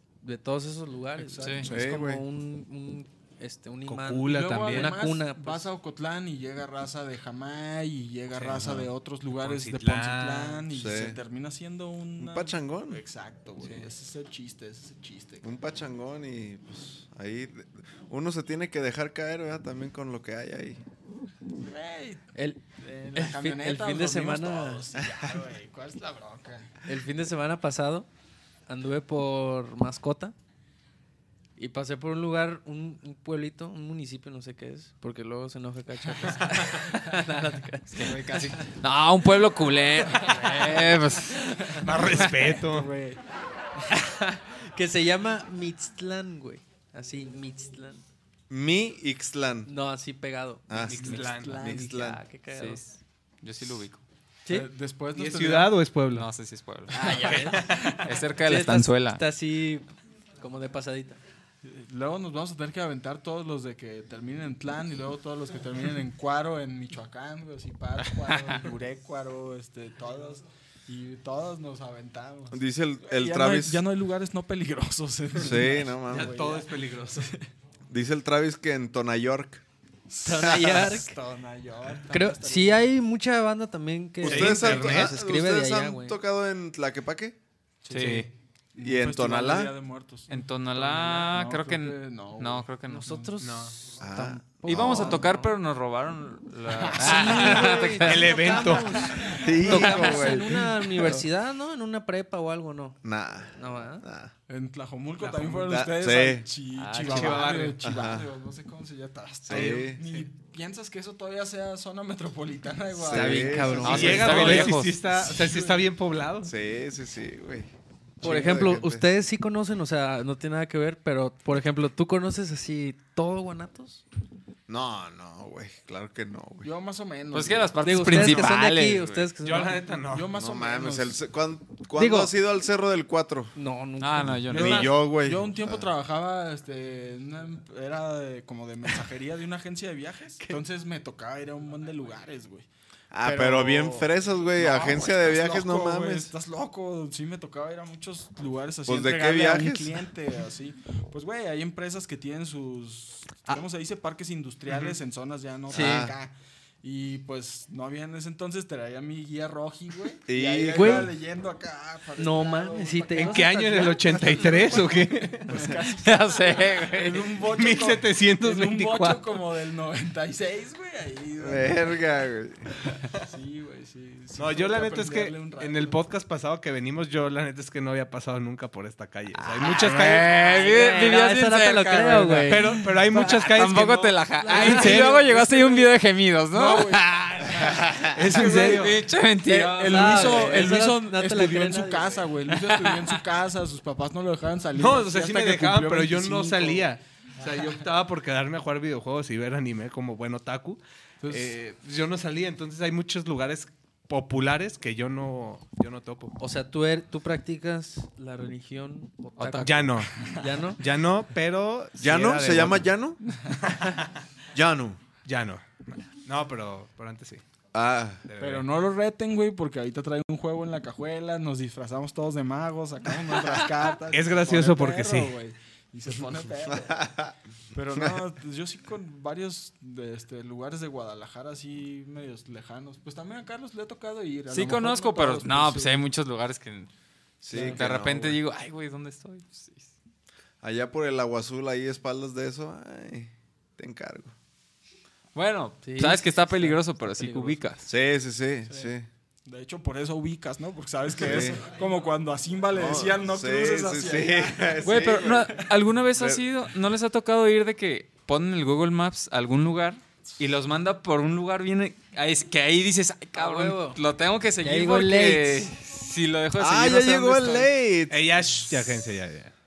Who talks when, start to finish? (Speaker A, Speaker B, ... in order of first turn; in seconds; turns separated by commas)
Speaker A: 0.2-5.7, Speaker B: 1.2-1.8, Speaker C: 1.4-1.6, Speaker D: 1.6-2.2, Speaker E: 3.9-5.0, Speaker B: 4.2-15.4, Speaker D: 8.5-8.9, Speaker E: 9.3-10.6, Speaker D: 10.7-11.2, Speaker D: 12.2-13.0, Speaker E: 13.6-13.8, Speaker D: 15.4-20.8, Speaker B: 21.6-26.7, Speaker A: 22.3-22.6, Speaker A: 23.1-24.8, Speaker A: 26.9-28.1, Speaker A: 28.7-30.3, Speaker A: 31.6-38.6, Speaker B: 36.1-36.6, Speaker C: 37.9-41.5, Speaker A: 41.3-41.8, Speaker B: 41.7-43.2, Speaker E: 41.8-42.9, Speaker A: 43.9-48.0, Speaker D: 48.5-49.7, Speaker A: 49.6-52.8, Speaker D: 50.7-52.2, Speaker E: 50.7-51.7, Speaker B: 51.2-51.8, Speaker C: 52.5-54.0, Speaker B: 54.5-55.7, Speaker E: 55.1-56.3, Speaker C: 56.1-57.3, Speaker A: 56.9-57.9, Speaker B: 57.1-57.7, Speaker E: 57.3-57.9, Speaker C: 58.0-59.2, Speaker A: 58.4-59.9, Speaker A: 60.4-61.2, Speaker B: 61.6-77.5, Speaker D: 72.5-73.8, Speaker D: 75.3-76.4, Speaker E: 76.1-77.3, Speaker D: 77.9-79.6, Speaker B: 80.1-82.9, Speaker A: 80.2-81.2, Speaker A: 82.1-86.2, Speaker D: 84.2-87.3, Speaker E: 84.2-85.2, Speaker B: 87.8-93.2, Speaker C: 87.9-88.3, Speaker E: 87.9-88.3, Speaker D: 88.8-89.7, Speaker C: 90.3-93.3, Speaker A: 92.8-95.5, Speaker E: 93.4-93.7, Speaker D: 94.0-95.3, Speaker C: 94.2-98.5, Speaker B: 96.8-97.9, Speaker A: 96.9-103.0, Speaker E: 98.0-99.2, Speaker B: 99.0-100.3, Speaker D: 99.2-101.2, Speaker D: 103.0-104.3, Speaker A: 103.5-104.0, Speaker B: 104.5-115.8, Speaker D: 105.6-106.5, Speaker C: 106.8-107.5, Speaker E: 106.9-107.8, Speaker D: 107.8-108.3, Speaker D: 109.4-110.0, Speaker E: 109.5-110.2, Speaker D: 113.0-114.1, Speaker A: 113.1-114.7, Speaker C: 113.8-115.0, Speaker E: 113.9-116.5, Speaker D: 116.4-119.1, Speaker A: 118.2-124.0, Speaker D: 124.7-126.7, Speaker B: 126.6-128.5, Speaker C: 127.3-129.3, Speaker A: 127.8-129.8, Speaker E: 129.4-130.3, Speaker B: 129.6-131.2, Speaker D: 130.3-133.5, Speaker A: 131.9-132.3, Speaker A: 133.5-134.9, Speaker C: 134.0-134.9, Speaker D: 134.5-135.9, Speaker B: 134.5-142.7, Speaker D: 143.1-146.3, Speaker B: 143.2-172.0, Speaker D: 148.8-150.0, Speaker E: 154.7-154.9, Speaker D: 155.7-156.1, Speaker A: 155.7-156.1, Speaker D: 160.3-161.1, Speaker A: 160.7-161.1, Speaker A: 162.2-164.7, Speaker E: 163.1-165.6, Speaker C: 165.7-167.3, Speaker E: 167.4-169.3, Speaker D: 171.4-172.6, Speaker B: 173.2-176.0, Speaker E: 174.4-180.4, Speaker C: 179.5-190.8, Speaker A: 179.6-182.9, Speaker E: 182.5-185.2, Speaker B: 183.1-183.6, Speaker B: 184.4-185.9, Speaker A: 184.4-185.1, Speaker B: 186.5-196.9, Speaker E: 188.1-189.0, Speaker A: 189.7-192.3, Speaker C: 192.6-193.0, Speaker E: 194.7-206.3, Speaker B: 201.2-201.5, Speaker A: 206.4-210.8, Speaker C: 209.4-209.9, Speaker E: 209.6-210.1, Speaker E: 210.8-212.9, Speaker D: 212.0-213.2, Speaker D: 214.5-215.0, Speaker E: 215.2-217.4, Speaker D: 217.7-218.2, Speaker E: 218.2-218.7, Speaker B: 218.4-227.2, Speaker E: 224.1-225.3, Speaker D: 226.8-227.3, Speaker B: 227.7-236.1, Speaker C: 234.5-236.9, Speaker C: 237.4-239.9, Speaker D: 237.4-238.4, Speaker A: 237.5-237.8, Speaker D: 240.6-244.3, Speaker C: 245.3-247.9, Speaker A: 245.8-247.6, Speaker D: 247.8-249.1, Speaker B: 248.7-248.9, Speaker B: 249.4-255.6, Speaker D: 251.2-251.6, Speaker D: 252.7-255.6, Speaker C: 254.8-267.7, Speaker D: 256.1-256.4, Speaker A: 263.3-264.0, Speaker A: 264.6-265.7, Speaker D: 266.6-268.3, Speaker E: 268.1-269.5